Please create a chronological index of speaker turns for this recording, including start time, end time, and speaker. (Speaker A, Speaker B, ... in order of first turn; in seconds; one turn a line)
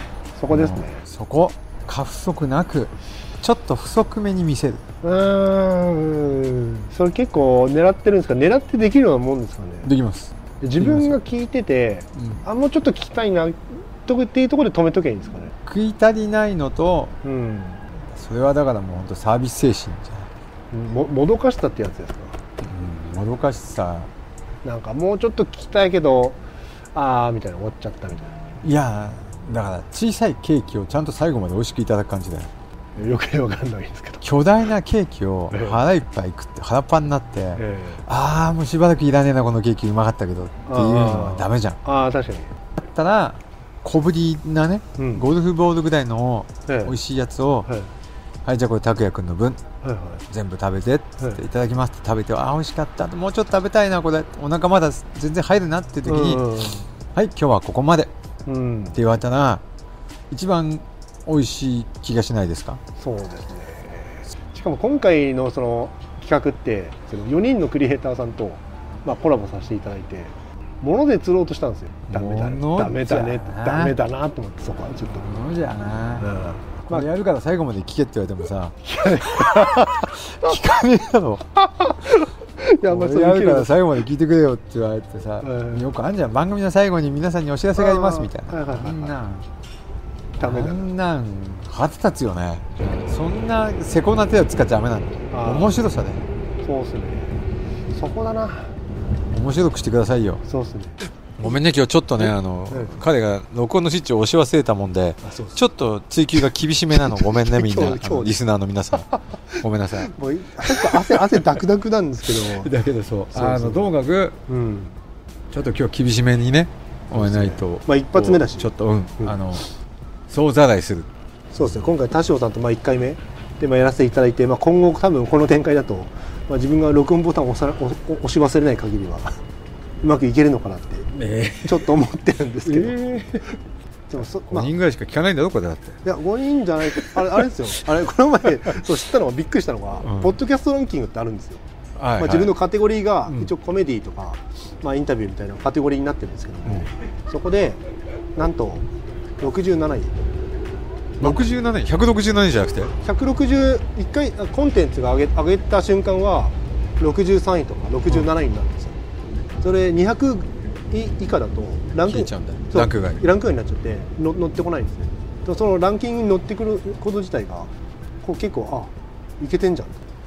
Speaker A: 0.4-1.0
Speaker B: 0.5-4.8
Speaker A: 5.0-9.9
Speaker B: 9.8-11.2
Speaker A: 10.6-15.5
Speaker B: 12.2-12.4
Speaker B: 15.7-17.2
Speaker A: 17.2-17.8
Speaker B: 18.1-20.3
Speaker A: 20.7-22.4
Speaker B: 22.6-24.1
Speaker A: 24.6-26.4
Speaker A: 26.9-28.4
Speaker B: 28.6-32.5
Speaker A: 33.0-34.2
Speaker B: 34.2-41.8
Speaker A: 35.5-35.8
Speaker A: 37.6-38.0
Speaker A: 40.7-42.5
Speaker B: 42.8-47.7
Speaker A: 45.0-45.3
Speaker A: 46.7-47.0
Speaker B: 48.5-49.6
Speaker A: 49.8-50.2
Speaker B: 50.3-56.5
Speaker A: 56.1-56.9
Speaker B: 57.1-58.1
Speaker A: 58.5-59.0
Speaker B: 58.9-59.6
Speaker B: 60.3-62.8
Speaker A: 63.0-75.2
Speaker B: 72.1-74.0
Speaker B: 75.1-76.3
Speaker A: 76.2-77.1
Speaker B: 76.9-78.8
Speaker A: 78.8-80.3
Speaker B: 79.4-81.5
Speaker A: 81.6-83.8
Speaker B: 82.9-89.5
Speaker A: 85.4-85.9
Speaker A: 87.8-89.2
Speaker A: 90.4-90.9
Speaker B: 90.4-96.3
Speaker A: 95.3-95.8
Speaker A: 96.6-97.4
Speaker A: 98.0-98.7
Speaker B: 99.3-100.4
Speaker A: 100.5-101.5
Speaker B: 101.4-110.1
Speaker A: 105.2-105.6
Speaker A: 107.0-108.4
Speaker A: 109.5-112.7
Speaker B: 110.7-111.3
Speaker B: 112.4-114.4
Speaker A: 113.3-113.9
Speaker A: 114.5-115.0
Speaker B: 115.5-119.7
Speaker A: 117.1-119.4
Speaker B: 120.3-121.1
Speaker A: 121.5-129.4
Speaker A: 130.0-131.1
Speaker B: 131.1-131.9
Speaker A: 131.6-133.2
Speaker B: 132.7-133.5
Speaker A: 134.1-134.7
Speaker B: 134.5-136.0
Speaker A: 136.0-141.6
Speaker B: 140.0-140.3
Speaker B: 142.0-142.5
Speaker A: 142.2-147.8
Speaker A: 148.4-148.9
Speaker A: 149.4-150.1
Speaker B: 151.2-152.9
Speaker A: 153.0-159.0
Speaker A: 159.6-167.7
Speaker B: 162.1-163.2
Speaker A: 168.2-170.0